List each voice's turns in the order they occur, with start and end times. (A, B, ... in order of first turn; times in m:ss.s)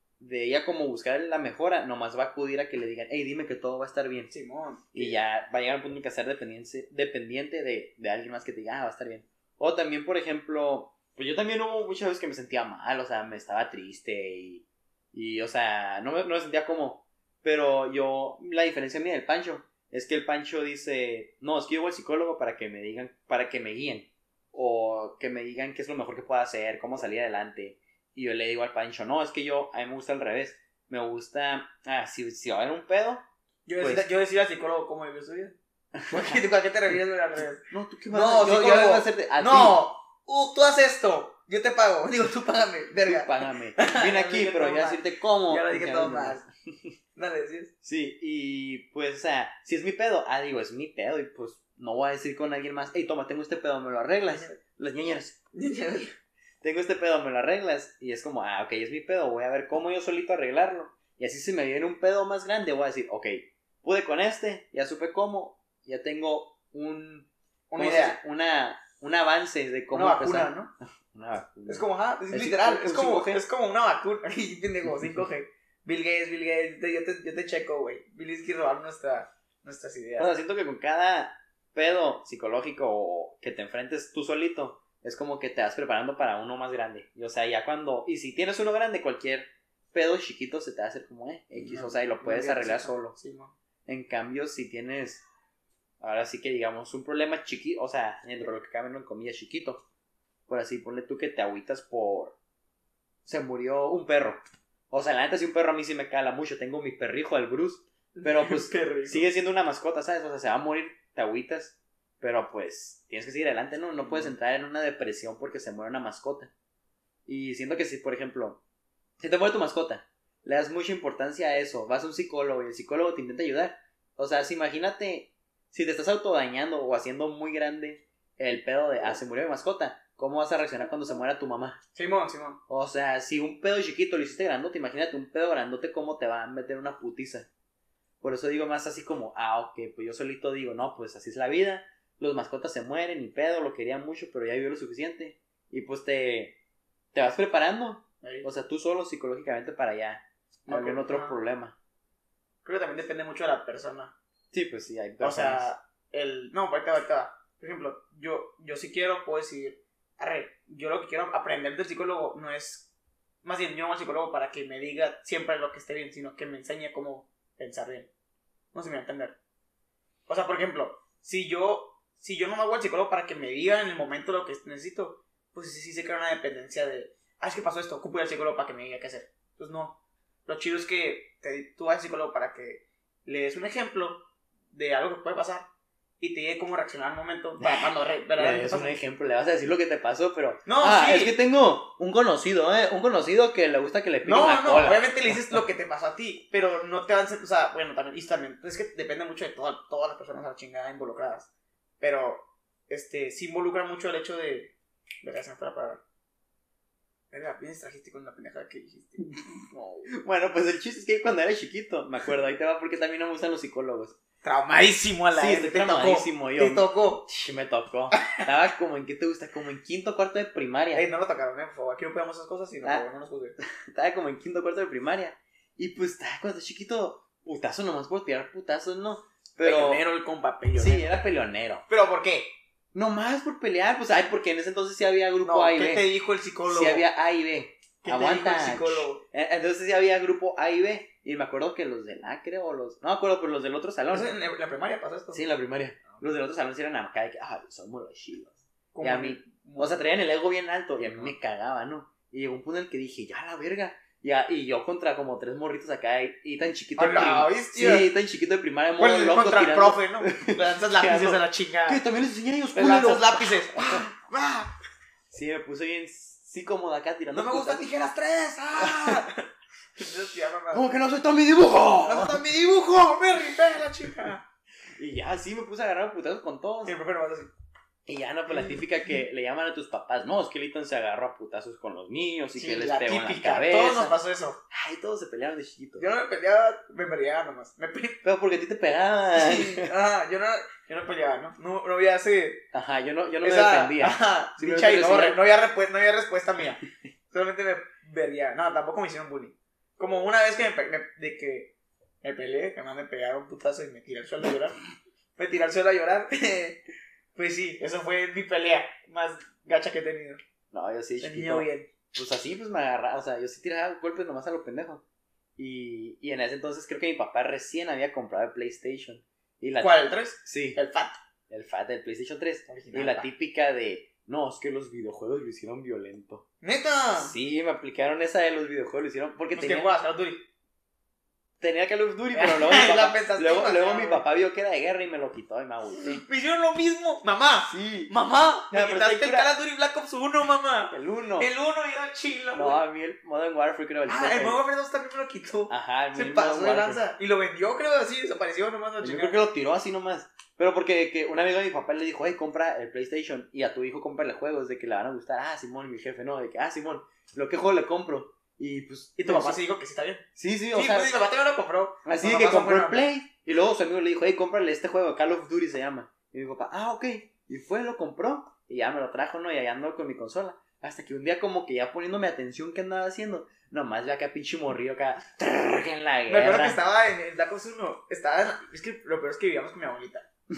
0:00.2-0:04.3 A
0:04.3-0:05.2 B
0:04.9-0:33.2 A
0:33.6-0:35.5 B
0:33.8-0:34.0 A
0:36.0-0:36.4 A
0:36.0-0:46.4 B
0:37.7-0:39.8 A
0:43.0-0:46.5 A
0:47.2-0:47.7 B
0:47.8-0:55.4 A
0:54.3-0:54.6 B
0:55.5-0:56.1 B
0:56.6-1:13.4 A
1:07.7-1:08.2 B
1:09.9-1:10.7 B
1:11.7-1:20.3 B
1:20.2-1:33.1 A
1:31.5-1:33.5 B
1:33.9-1:35.2 A
1:36.0-1:39.8 A
1:40.5-1:42.4 A
1:43.2-1:56.5 A
1:48.1-1:49.3 B
1:54.0-1:54.3 B
1:57.3-1:58.6 A
1:59.2-2:11.8 A
2:11.9-2:12.6 B
2:12.7-2:17.5 A
2:18.2-2:26.6 A
2:27.1-2:31.8 A
2:28.2-2:28.5 B
2:30.7-2:31.4 B
2:32.6-2:34.1 B
2:34.5-2:35.7 A
2:35.2-2:42.9 B
2:43.4-2:48.1 B
2:48.7-2:49.4 B
2:50.3-3:05.7 B
3:06.2-3:08.9 B
3:07.6-3:15.6 A
3:10.6-3:11.4 B
3:14.2-3:26.0 B
3:27.3-3:30.1 B
3:30.1-3:34.2 A
3:34.4-3:37.3 B
3:35.3-3:41.0 A
3:38.2-3:38.4 B
3:40.9-3:43.6 B
3:43.6-3:50.0 A
3:49.6-3:51.1 B
3:50.8-3:51.8 A
3:51.9-3:52.5 B
3:52.9-3:56.1 A
3:55.4-3:57.0 B
3:56.7-4:04.3 A
3:58.0-3:59.2 B
4:04.1-4:05.4 B
4:05.3-4:24.0 A
4:08.9-4:10.0 B
4:11.0-4:11.3 B
4:17.0-4:18.1 B
4:19.0-4:22.0 B
4:22.7-4:24.7 B
4:25.3-4:27.9 A
4:27.3-4:29.4 B
4:28.8-4:29.2 A
4:30.0-4:30.9 B
4:30.7-4:32.4 A
4:32.0-4:34.4 B
4:34.9-4:37.0 A
4:36.8-4:37.5 B
4:38.0-4:44.2 A
4:38.5-4:38.8 B
4:42.6-4:44.6 B
4:44.7-4:46.0 A
4:46.0-4:48.2 B
4:48.2-4:49.9 A
4:49.4-4:52.6 B
4:52.7-4:55.4 A
4:53.4-5:04.8 B
5:05.4-5:06.8 B
5:07.4-5:10.4 B
5:10.7-5:15.0 A
5:11.2-5:11.9 B
5:15.6-5:20.8 A
5:19.8-5:21.2 B
5:21.5-5:26.4 A
5:22.7-5:23.3 B
5:26.6-5:27.4 B
5:27.2-5:29.9 A
5:29.5-5:30.5 B
5:31.6-5:36.2 A
5:32.3-5:34.2 B
5:36.0-5:42.8 B
5:37.7-5:38.1 A
5:38.7-5:39.5 A
5:40.9-5:41.5 A
5:42.5-5:44.6 A
5:44.1-5:49.4 B
5:45.7-5:47.0 A
5:49.0-5:59.6 A
5:59.2-6:03.1 B
6:00.4-6:01.1 A
6:02.0-6:16.8 A
6:16.3-6:20.3 B